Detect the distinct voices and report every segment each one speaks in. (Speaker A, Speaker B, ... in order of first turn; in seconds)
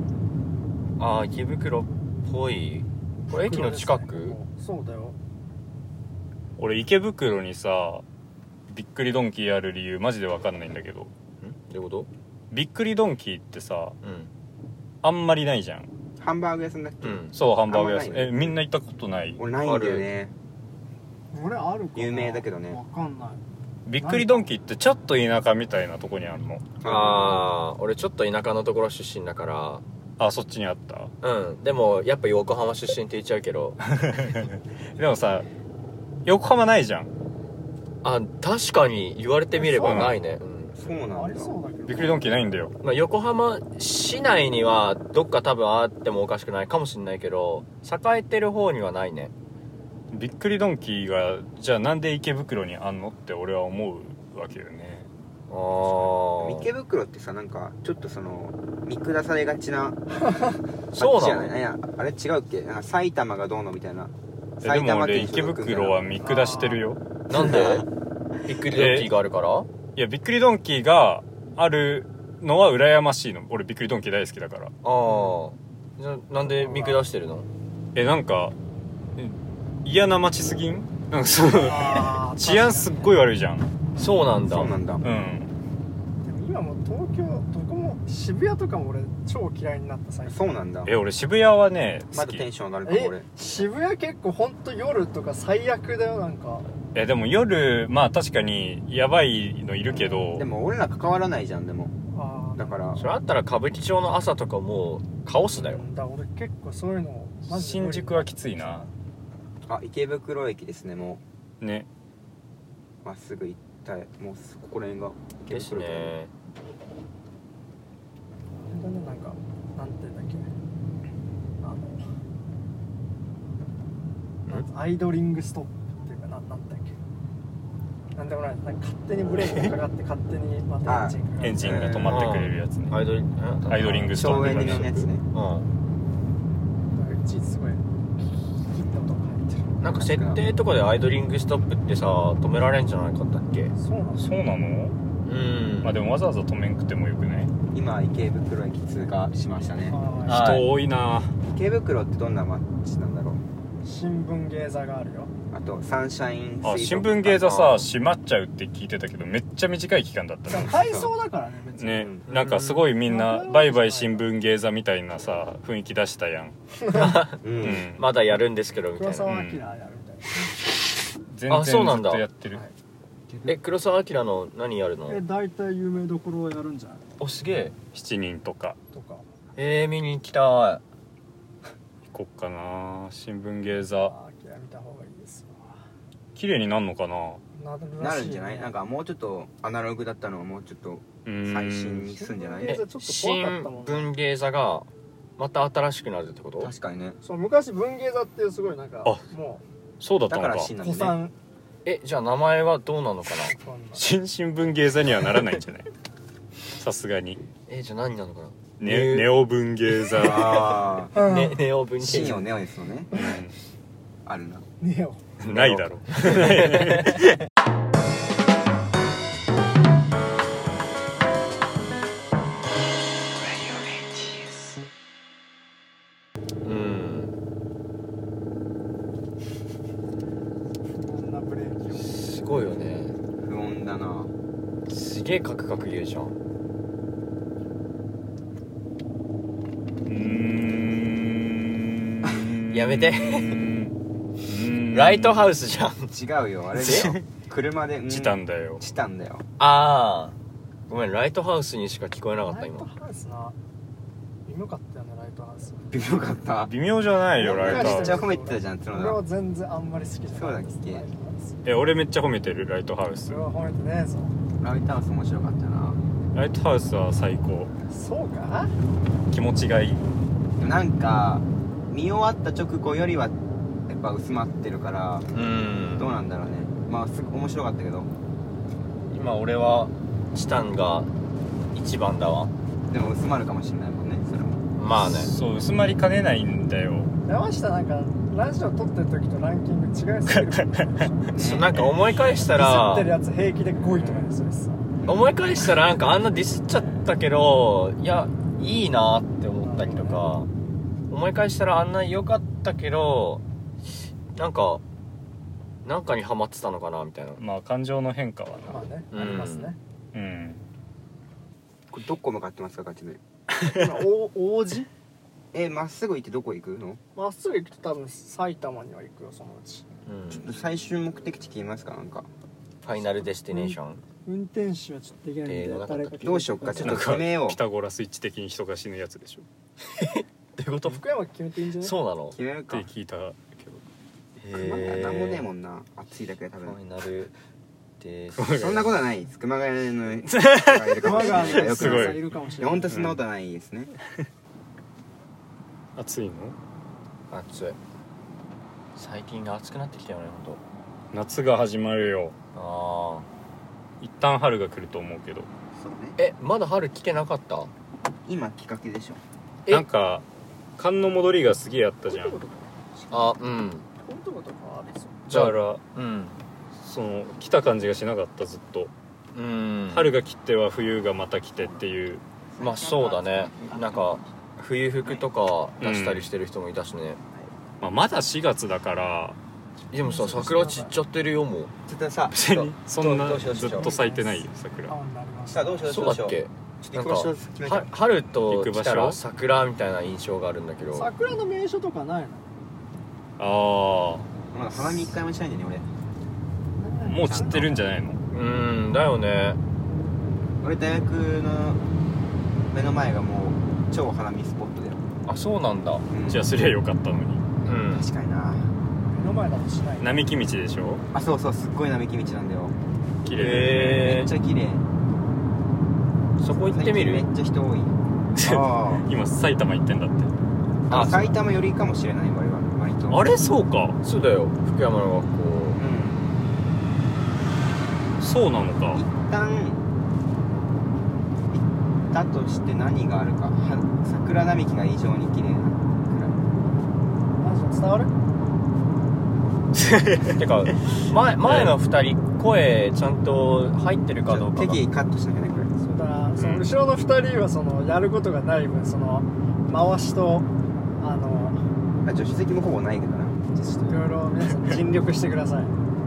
Speaker A: 1.0-4.3, 11.4-12.1, 14.0-14.3, 17.0-17.3, 19.6-20.1, 26.8-29.8, 31.2-33.8, 38.0-40.8, 42.8-49.3, 55.5-56.7, 60.9-61.5, 67.3-67.9, 68.5-69.7, 74.8-77.5, 84.0-84.8, 103.0-105.8, 115.5-116.3, 132.1-135.7, 139.8-143.7, 145.2-146.0, 150.2-150.7, 157.4-157.9, 162.3-162.9, 166.9-169.3, 171.5-172.2, 173.4-175.2, 177.2-177.8, 179.6-180.8, 192.6-194.9, 195.4-196.7, 201.8-203.5, 207.7-209.4, 209.9-212.5, 215.4-217.2, 223.4-224.5, 226.6-227.3, 232.0-233.2, 234.9-236.4, 242.7-243.6, 244.9-246.1, 246.7-247.1, 249.6-250.3, 250.9-252.9, 275.3-276.1, 279.1-281.1, 281.7-282.5, 284.8-285.3, 291.4-293.1, 295.0-300.5, 301.1-303.4, 304.3-304.8, 305.8-307.4, 309.1-309.7, 320.1-320.5, 322.8-324.0, 325.4-327.3, 329.8-331.0, 331.8-332.4, 334.4-335.5, 336.6-337.3, 338.0-338.9, 347.3-347.8, 348.9-350.6, 352.5-353.2, 356.2-357.7, 363.1-363.9, 365.3-366.4, 369.3-370.2, 372.6-377.2, 379.9-381.7, 385.9-391.1, 398.3-399.6, 405.2-406.0, 407.6-408.1, 413.3-414.3, 416.4-417.3, 420.9-421.4, 424.0-425.8, 440.2-444.8
Speaker B: 3.3-5.2, 21.3-23.4, 24.0-24.5, 39.5-40.2, 40.9-42.4, 60.2-60.6, 66.2-66.8, 75.0-75.4, 76.5-77.0, 81.6-83.1, 86.2-90.4, 92.8-96.7, 99.9-100.3, 102.1-102.8, 105.5-108.9, 118.7-120.5, 121.6-122.1, 124.5-127.0, 128.2-132.0, 136.9-139.7, 143.8-144.3, 149.9-150.6, 153.8-155.3, 160.5-162.1, 163.1-164.3, 166.8-167.2, 169.0-170.4, 175.1-177.0, 178.9-179.2, 183.7-185.8, 187.5-188.7, 192.2-194.1, 197.2-199.6, 200.8-201.3, 203.5-204.1, 211.1-211.6, 214.8-215.2, 230.9-232.2, 252.5-253.6, 254.4-256.0, 257.4-261.6, 263.2-264.4, 267.9-268.7, 287.2-291.3, 292.4-294.9, 299.6-300.3, 308.7-309.8, 313.7-314.9, 317.1-319.8, 323.5-326.9, 330.8-331.9, 341.0-343.0, 362.1-363.4, 364.0-365.3, 380.0-380.9, 383.6-386.1, 390.9-392.5, 396.8-397.9, 409.1-410.3, 437.4-438.1, 445.8-450.5, 451.0-451.6, 453.5-455.7
Speaker C: 6.6-8.0, 8.7-11.1, 12.5-14.0, 15.0-15.9, 17.3-19.4, 23.9-26.7, 30.2-31.1, 33.9-35.5, 36.2-37.1, 39.8-40.2, 41.9-42.7, 50.1-55.1, 64.6-67.0, 68.7-69.1, 69.9-74.7, 77.9-78.5, 79.2-83.7, 85.0-85.5, 90.8-92.5, 96.9-100.5, 107.5-108.9, 111.6-111.9, 131.4-133.0, 133.7-135.1, 144.2-144.9, 145.8-147.5, 150.3-151.3, 156.6-161.1, 161.8-166.6, 167.6-168.1, 169.2-169.6, 171.3-172.6, 177.9-178.8, 182.1-184.1, 186.3-187.4, 191.2-192.1, 200.0-200.7, 203.9-205.9, 206.7-207.4, 208.8-210.7, 213.1-213.5, 215.4-217.3, 240.0-245.5, 246.8-247.2, 248.1-248.8, 256.6-258.2, 261.6-263.4, 266.3-267.7, 269.3-270.0, 284.9-287.1, 290.3-290.9, 307.4-308.9, 310.1-310.6, 326.8-329.5, 332.7-333.8, 338.4-338.9, 340.3-342.3, 342.9-343.2, 345.9-346.6, 351.1-352.3, 354.0-355.5, 359.7-360.2, 360.8-362.4, 365.3-365.8, 366.7-368.9, 369.9-372.2, 375.8-376.3, 377.8-379.4, 382.3-384.9, 388.5-389.2, 393.4-394.3, 397.0-398.2, 406.3-407.5, 410.0-411.0, 413.2-414.1, 418.4-420.3, 423.1-424.0, 428.2-429.0, 439.8-440.4, 441.4-441.7, 446.4-446.7
Speaker D: 16.2-18.6, 19.4-20.3, 21.9-22.8, 26.8-27.4, 40.8-41.5, 55.8-60.0, 61.0-66.0, 67.3-67.8, 84.4-85.0, 90.2-90.9, 92.1-93.2, 100.3-101.9, 102.6-103.1, 109.7-111.2, 113.0-116.1, 130.8-132.3, 134.1-135.2, 139.9-140.4, 147.7-150.0, 151.5-153.4, 155.5-157.7, 161.9-162.3, 167.4-167.9, 188.0-192.8, 196.6-197.2, 200.3-201.2, 210.1-211.1, 212.0-213.1, 214.2-214.7, 233.4-234.3, 246.1-249.4, 255.9-256.7, 257.4-259.2, 260.3-261.1, 264.6-266.0, 270.6-273.4, 273.9-275.3, 276.0-278.1, 282.9-284.6, 291.3-291.8, 295.0-295.4, 311.9-313.2, 315.5-317.0, 320.3-322.3, 326.2-327.6, 332.3-332.9, 334.5-336.8, 338.5-343.9, 355.7-356.2, 358.2-359.2, 372.5-374.2, 381.9-384.0, 385.4-387.9, 394.5-395.9, 397.2-397.7, 400.6-401.8, 402.7-405.0, 406.1-406.5, 407.9-408.7, 411.1-412.8, 413.9-414.8, 416.5-419.1, 420.9-423.4, 425.8-426.3, 428.9-429.8, 431.5-436.4, 444.3-445.7, 452.0-453.4